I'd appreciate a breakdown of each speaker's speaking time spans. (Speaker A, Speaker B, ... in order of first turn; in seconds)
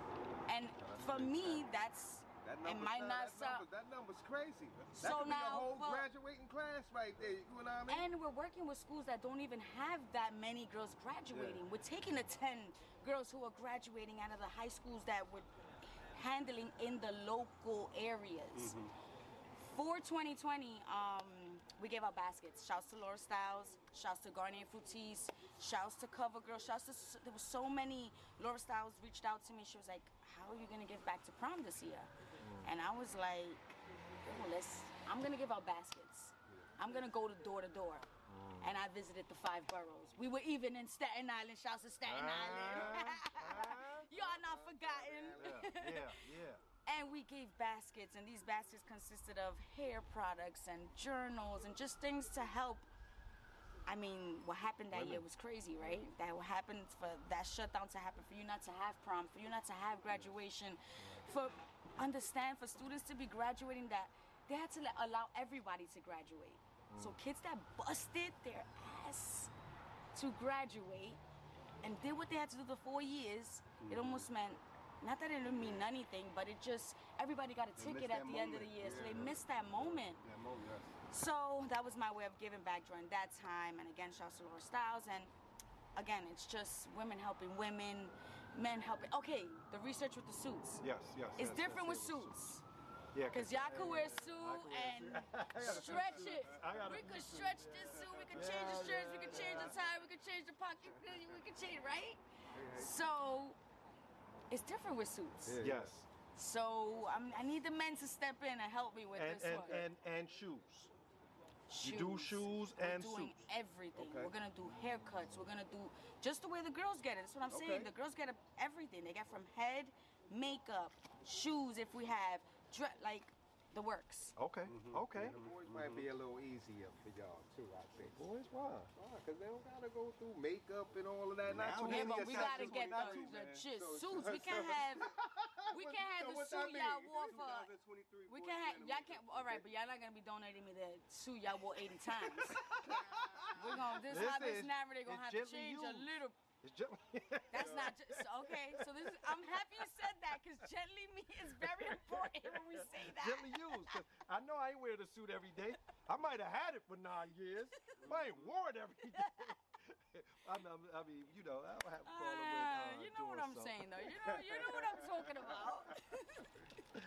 Speaker A: 0.5-3.6, 4.9-6.1, 7.9-15.5, 16.1-18.8, 19.6-32.1, 32.6-38.1, 38.6-46.2, 46.9-52.9, 53.9-69.5, 70.1-71.2, 71.8-80.2, 81.1-85.3, 86.0-90.8, 91.3-92.6, 93.3-103.6, 104.5-105.6, 106.3-109.8, 111.7-124.3, 131.8-135.1, 135.7-137.7, 138.3-142.6, 143.5-146.4, 147.5-154.0, 159.1-159.5, 162.0-166.7
Speaker B: 0.8-1.6, 2.4-8.0, 11.3-11.6, 42.5-43.1, 44.1-45.6, 99.3-99.6, 102.5-102.9, 105.5-105.9, 113.9-114.3, 117.5-117.9, 125.2-128.2, 128.9-136.6
Speaker C: 32.4-32.7, 38.3-38.7, 42.0-44.1, 45.3-46.6, 54.9-55.2, 66.9-67.2, 90.8-92.4, 93.1-97.6, 98.3-99.7, 105.6-106.1, 109.1-110.9, 111.8-113.4, 124.4-125.3, 128.1-128.9, 143.5-149.6, 151.6-164.7
Speaker D: 73.8-74.2, 77.7-81.0, 97.9-98.8, 124.7-126.1, 131.4-133.4, 136.1-139.6, 142.8-143.5